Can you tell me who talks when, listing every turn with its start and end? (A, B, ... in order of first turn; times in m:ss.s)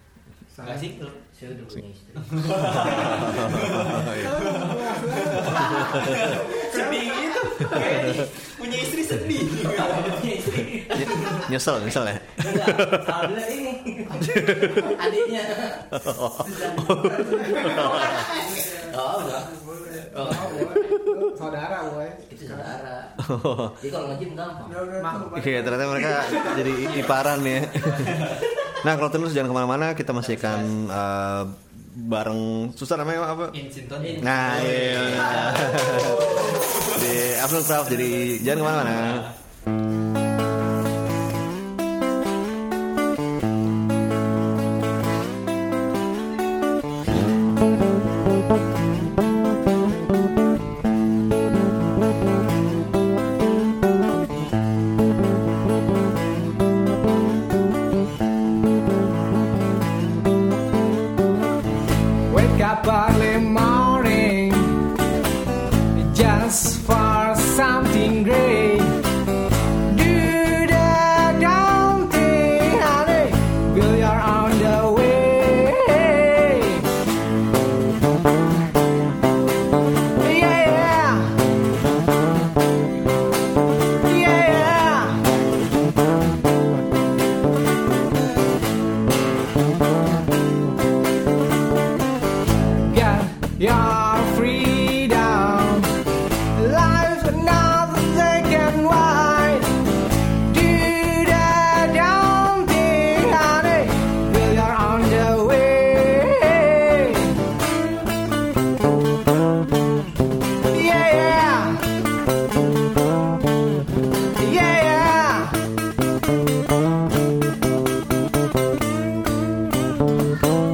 0:00.5-0:00.9 A
0:00.6-0:01.2 B
0:01.3-0:03.2 C
0:02.2-0:10.3 B
0:02.6-0:04.4 D
0:03.9-0:06.4 A
0:05.5-0:06.4 D
0:06.4-0:07.8 E
0:07.6-0:08.3 D
0:09.6-0:16.0 C
0:10.9-0:13.3 D
0:14.1-0:15.0 D
0:15.9-0:18.2 D
0:16.4-0:20.4 E
0:17.4-0:19.5 C
0:20.1-0:20.9 C
0:20.1-0:22.2 A
0:22.3-0:23.2 C
0:23.2-0:23.8 D
0:23.8-0:24.8 C
0:24.6-0:26.9 E
0:25.0-0:25.5 A
0:25.4-0:33.6 D
0:26.4-0:27.1 C
0:27.8-0:28.3 C
0:27.8-0:28.5 B
0:30.2-0:30.7 B
0:33.5-0:39.3 B
0:34.0-0:35.6 C
0:34.2-0:39.3 D
1:02.3-1:04.8 A
1:06.0-1:09.0 A
1:09.8-1:16.9 A
1:20.2-1:21.4 A
1:24.0-1:25.2 A
1:32.8-1:35.9 A
1:36.5-1:39.8 A
1:40.5-1:47.4 A
1:50.7-1:51.8 A
1:54.4-1:55.6 A